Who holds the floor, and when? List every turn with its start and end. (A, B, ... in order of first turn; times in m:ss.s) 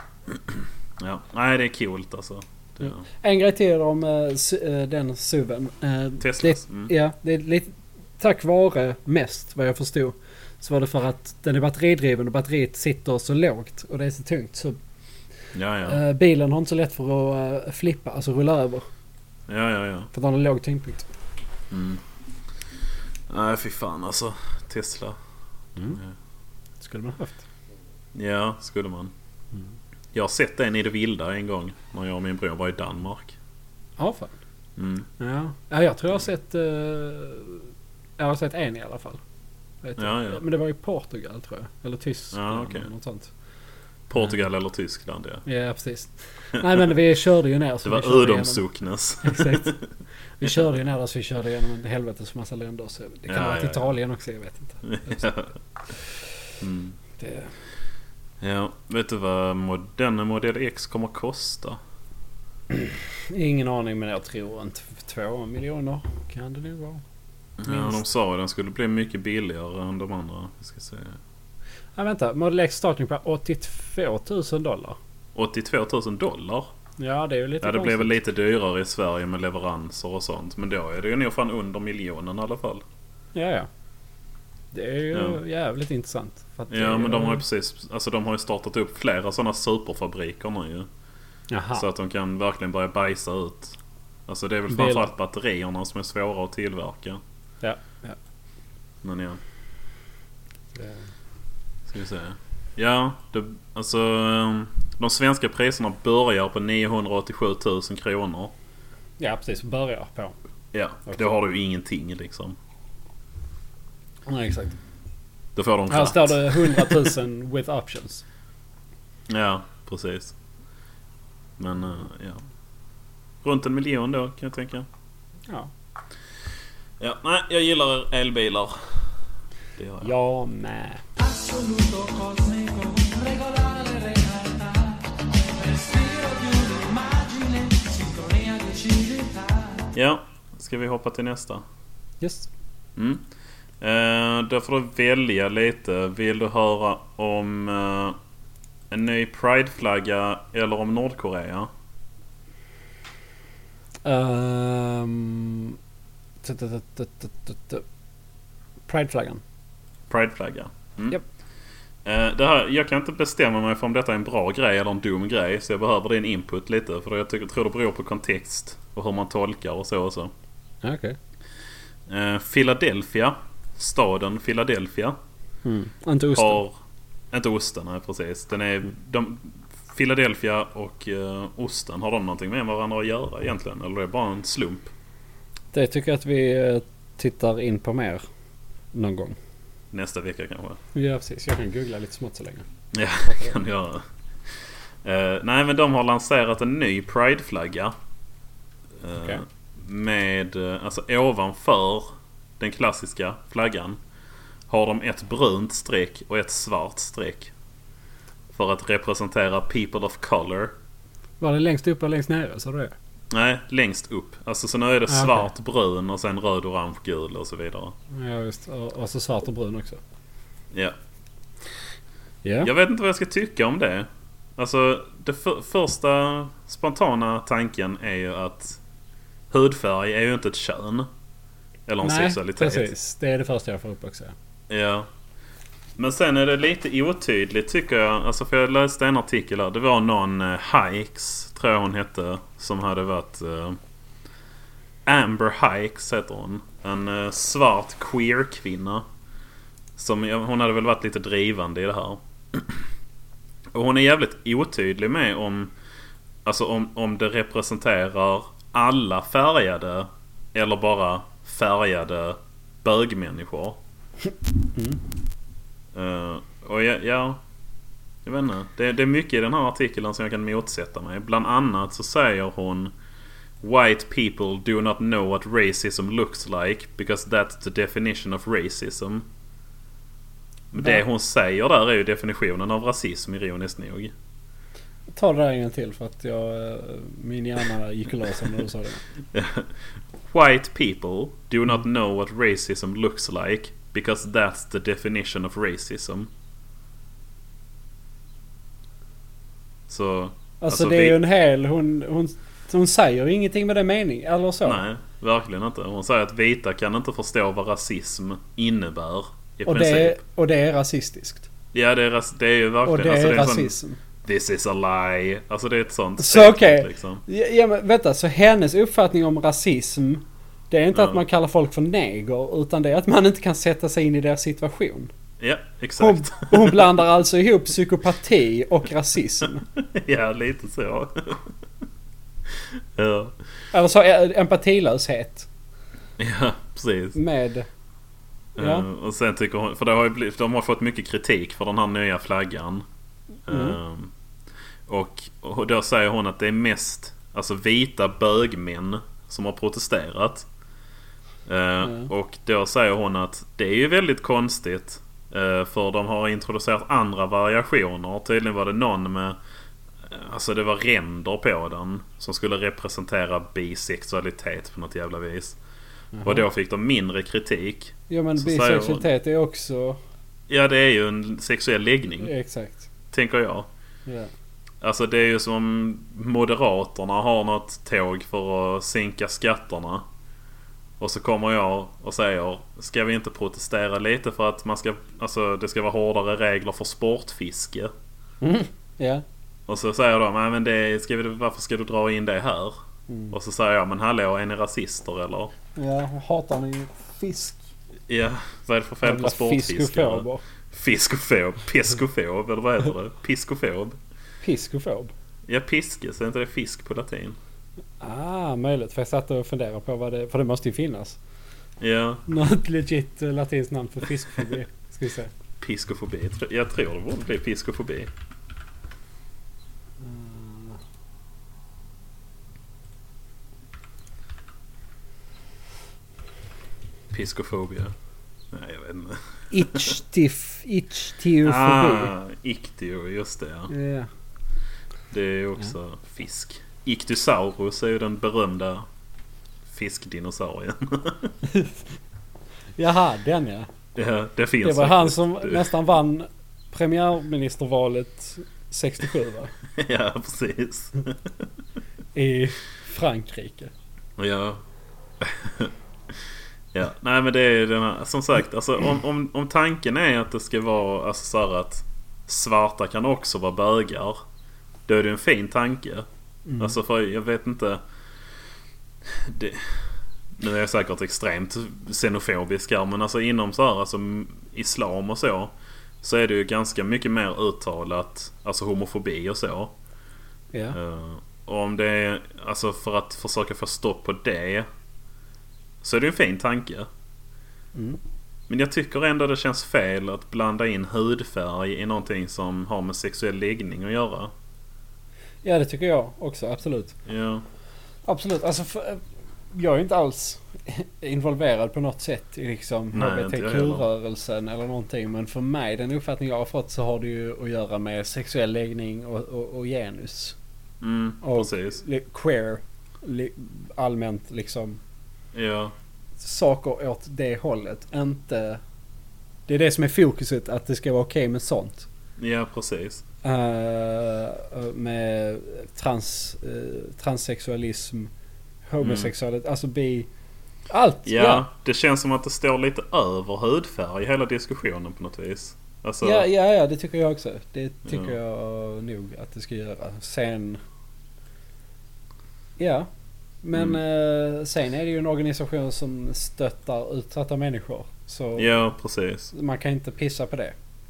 0:00.3-0:03.0 A
0:03.1-0:14.8 B
0:06.2-0:06.9 A
0:15.5-0:16.0 A
0:15.8-0:18.8 B
0:19.5-0:20.1 A
0:20.1-0:21.1 B
0:21.7-0:22.0 A
0:23.3-0:25.2 A
0:26.8-0:27.4 B
0:28.1-0:29.1 A
0:30.1-0:33.3 A
0:34.0-0:34.3 B
0:34.8-0:35.1 A
0:35.2-0:39.2 B
0:39.8-0:43.3 B
0:40.0-0:40.4 A
0:42.3-0:42.9 A
0:44.1-0:45.4 A
0:45.4-0:48.6 B
0:47.8-0:49.8 A
0:49.2-0:49.8 B
0:50.4-0:55.3 B
0:53.3-0:54.0 A
0:54.8-0:55.5 A
0:56.6-0:57.0 A
0:57.2-0:57.5 B
0:58.4-1:01.8 A
1:02.7-1:07.0 B
1:07.6-1:11.2 A
1:07.7-1:08.0 B
1:12.0-1:15.0 B
1:15.3-1:16.7 A
1:17.0-1:18.2 B
1:17.6-1:22.8 A
1:23.3-1:23.7 B
1:24.7-1:27.4 B
1:25.1-1:25.4 A
1:26.7-1:30.9 A
1:31.5-1:31.8 B
1:31.7-1:37.2 A
1:34.7-1:35.1 B
1:37.6-1:38.2 B
1:39.0-1:39.4 A
1:40.8-1:41.0 B
1:41.9-1:48.5 A
1:49.2-1:50.3 B
1:50.7-1:52.6 A
1:54.3-1:54.8 B
1:55.6-1:57.1 A
1:55.9-1:58.2 B
1:59.3-2:00.3 A
2:01.6-2:02.4 A
2:03.4-2:04.8 A
2:07.0-2:09.1 A
2:09.8-2:10.1 A
2:10.0-2:11.0 B
2:11.2-2:19.9 C
2:19.9-2:21.6 A
2:22.2-2:22.5 B
2:23.0-2:23.2 A
2:23.8-2:28.2 A
2:28.9-2:31.7 A
2:34.0-2:35.8 B
2:36.4-2:37.8 B
2:38.9-2:39.4 B
2:40.1-2:41.2 A
2:42.0-2:50.3 A
2:50.8-2:51.2 B
2:52.1-2:55.2 A
2:55.6-2:56.6 B
2:56.3-2:56.8 A
2:57.3-3:04.9 A
3:05.7-3:08.2 B
3:08.9-3:09.4 B
3:09.9-3:10.8 A
3:10.9-3:12.6 B
3:12.9-3:14.0 A
3:13.2-3:13.5 B
3:15.0-3:17.9 A
3:19.0-3:24.0 A
3:24.7-3:27.5 A
3:28.5-3:30.7 A
3:31.4-3:32.9 B
3:33.3-3:37.9 A
3:35.1-3:35.5 B
3:38.1-3:40.0 B
3:42.4-3:42.7 B
3:42.6-3:48.8 A
3:49.5-3:51.1 A
3:51.9-3:52.9 A
3:52.0-3:54.3 B
3:54.7-3:55.1 A
3:56.0-4:03.8 A
4:05.0-4:09.0 A
4:10.0-4:12.8 A
4:13.7-4:15.7 A
4:16.4-4:23.8 A
4:24.7-4:25.0 B
4:25.9-4:27.4 A
4:28.2-4:32.9 A
4:33.6-4:39.3 A
4:40.7-4:44.1 A
4:45.1-4:49.0 B
4:49.3-4:49.7 A
4:50.3-4:56.3 A
4:59.9-5:01.2 A
5:00.6-5:04.8 B
5:04.6-5:10.2 A
5:09.6-5:11.5 B
5:11.7-5:17.2 A
5:12.8-5:14.0 B
5:16.2-5:25.1 B
5:20.9-5:21.2 A
5:25.4-5:26.9 A
5:26.0-5:29.6 B
5:29.8-5:31.5 A
5:32.5-5:33.4 A
5:33.7-5:35.5 B
5:36.2-5:37.2 A
5:37.1-5:37.7 B
5:38.6-5:42.8 A
5:38.6-5:38.8 B
5:43.5-5:44.1 A
5:43.5-5:43.8 B
5:44.9-5:50.5 A
5:51.4-5:59.4 A
5:51.8-5:52.1 B
6:00.0-6:05.6 A
6:06.1-6:06.4 B
6:06.2-6:09.1 A
6:08.1-6:10.0 B
6:10.5-6:12.3 A
6:12.2-6:12.8 B
6:13.1-6:13.7 A
6:14.8-6:20.0 A
6:21.0-6:27.9 A
6:28.4-6:29.2 B
6:29.7-6:32.8 A
6:33.1-6:33.4 B
6:33.3-6:35.5 A
6:35.8-6:37.6 B
6:38.1-6:44.0 A
6:39.0-6:40.4 B
6:44.4-6:45.1 B
6:45.5-6:47.4 A
6:48.0-6:51.2 B
6:51.8-6:52.2 A
6:52.3-6:55.3 B
6:55.6-6:58.1 A
7:00.0-7:00.8 B
7:07.1-7:07.9 A
7:08.5-7:09.9 A
7:09.5-7:12.1 B
7:11.4-7:13.7 A
7:13.7-7:14.1 B
7:15.1-7:18.8 A
7:19.7-7:21.3 A
7:21.5-7:21.7 B
7:22.8-7:23.7 B
7:23.9-7:25.7 A
7:24.6-7:29.5 B
7:29.7-7:31.4 A
7:32.1-7:33.7 B
7:34.2-7:34.6 A
7:35.2-7:35.7 A
7:36.7-7:44.2 A
7:44.9-7:46.1 A
7:46.5-7:46.8 B
7:46.6-7:47.8 A
7:49.0-7:59.7 A
8:00.7-8:04.7 A
8:05.8-8:06.9 A
8:07.7-8:08.0 B
8:08.5-8:14.3 A
8:15.4-8:17.0 B
8:17.0-8:17.4 A
8:18.1-8:19.0 B
8:19.5-8:30.4 B
8:22.9-8:23.8 A
8:30.8-8:31.8 A
8:31.2-8:34.8 B
8:35.3-8:35.7 A
8:36.2-8:38.6 B
8:39.5-8:41.9 B
8:42.2-8:43.0 A
8:43.2-8:48.1 B
8:48.7-8:50.1 B
8:48.8-8:49.1 A
8:50.7-8:51.5 B
8:51.0-8:56.3 A
8:56.0-9:00.6 B
8:57.8-8:58.1 A
9:02.6-9:02.9 B
9:03.4-9:08.6 B
9:08.4-9:09.3 A
9:09.3-9:10.6 B